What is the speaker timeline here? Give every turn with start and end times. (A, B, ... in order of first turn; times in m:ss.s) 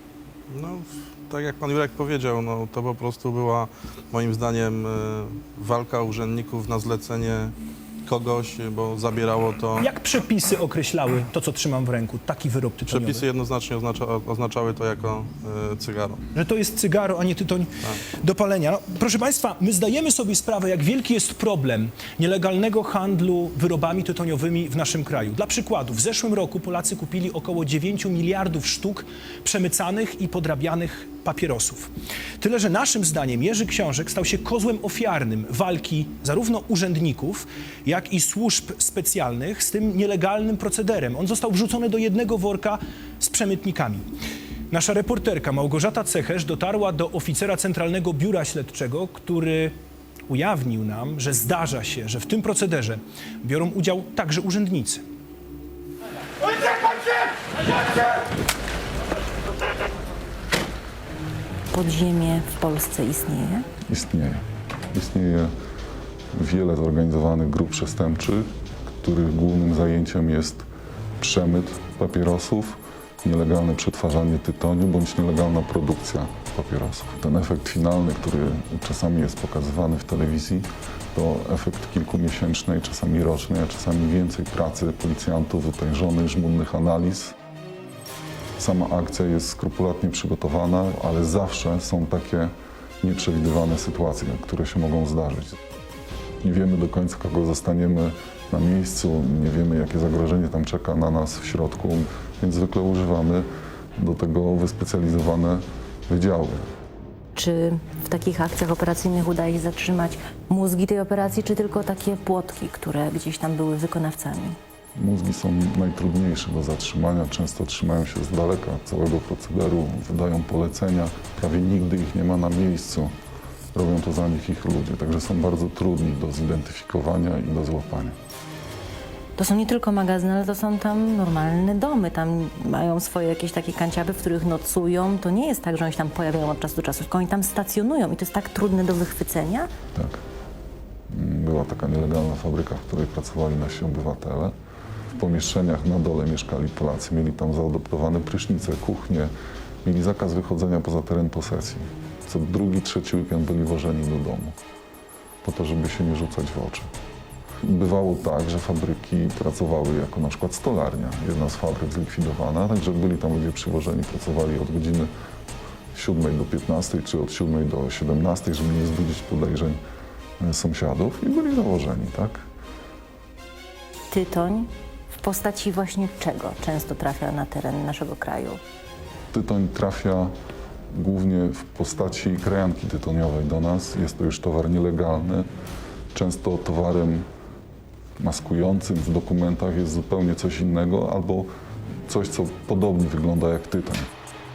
0:00.5-0:09.9 A
0:09.8-0:13.3 B
0:12.9-0:16.2 A
0:16.3-0:44.0 B
0:44.7-0:49.7 B
0:50.3-0:55.0 B
1:01.7-1:03.6 C
1:03.9-1:05.5 D
1:06.4-1:08.5 D
1:09.0-1:10.6 D
1:11.2-1:27.3 D
1:28.6-1:35.6 D
1:36.4-1:43.4 D
1:44.0-1:46.6 D
1:47.3-1:54.6 C
1:55.0-2:03.1 D
2:03.7-2:08.1 D
2:09.4-2:19.7 C
2:19.9-2:20.2 D
2:21.1-2:24.5 D
2:25.2-2:29.3 D
2:29.8-2:34.5 D
2:35.4-2:36.9 D
2:37.6-2:45.1 D
2:45.9-2:49.8 D
2:50.4-2:52.4 D
2:54.1-2:58.6 C
2:59.3-3:00.3 D
3:00.9-3:05.4 D
3:06.1-3:07.2 D
3:08.2-3:11.5 D
3:12.1-3:14.1 D